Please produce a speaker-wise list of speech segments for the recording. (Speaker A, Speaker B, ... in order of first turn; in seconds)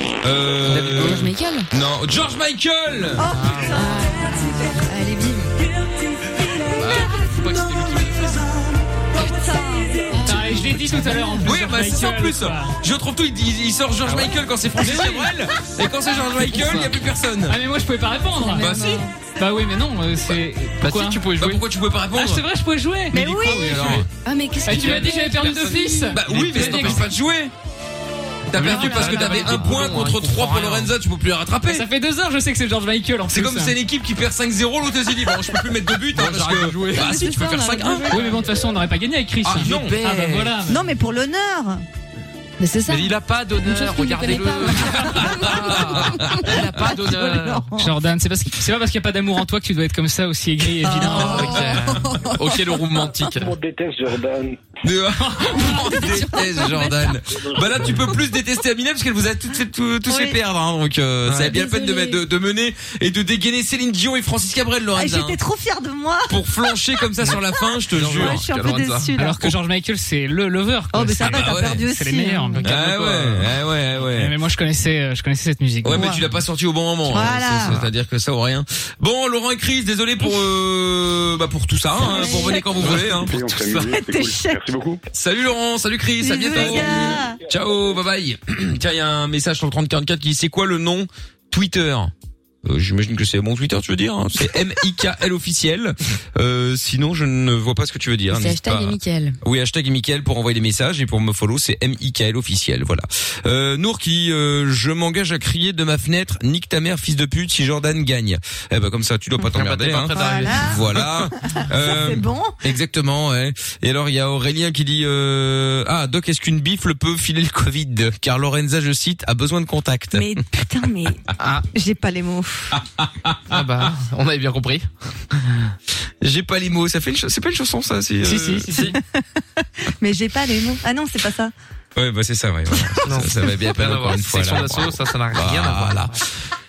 Speaker A: 0.2-3.3, 11.4-17.6, 18.6-19.0, 21.4-22.4, 23.1-24.1, 26.1-27.5, 28.5-31.9, 33.3-38.2, 39.5-40.1, 45.2-46.6, 54.8-65.4, 66.3-68.5, 71.2-71.8, 72.6-74.3, 75.8-83.8, 85.1-92.1, 92.7-120.3, 122.7-123.7, 126.2-128.8, 131.9-136.1
Speaker B: 0.7-1.3, 3.3-3.9, 6.7-8.5, 16.5-16.9, 20.8-21.6, 23.7-24.0, 24.7-27.1, 28.5-30.9, 36.1-37.2, 39.5-40.6, 42.9-47.7, 51.0-53.5, 61.3-61.5, 67.9-69.1, 72.6-73.5, 109.4-111.3, 121.4-121.7, 123.5-124.9, 128.7-129.0, 133.1-136.2
Speaker C: 0.8-1.7, 3.7-5.6, 10.1-11.2, 18.5-19.1, 24.2-26.1, 28.7-29.4, 42.6-45.5, 61.4-62.2, 98.3-99.4
Speaker D: 3.2-4.9, 5.8-10.6, 18.4-19.0, 23.1-23.9, 36.9-38.5, 40.7-41.8, 46.3-47.9, 50.9-52.8, 55.8-57.1, 65.0-66.4, 68.1-69.5, 70.9-72.6, 75.9-76.2, 77.1-77.8, 82.0-84.6, 86.2-87.4, 110.1-110.8, 111.4-112.6, 120.1-122.8, 130.0-131.5
Speaker E: 10.2-12.8, 14.8-15.3, 17.5-18.7, 19.4-21.2, 22.1-24.0, 24.7-27.0, 31.7-33.8, 38.1-40.8, 47.8-51.7, 69.2-72.7, 74.0-76.1, 128.2-129.0
Speaker F: 53.2-54.6, 57.4-57.8, 87.1-88.0
Speaker G: 82.7-85.0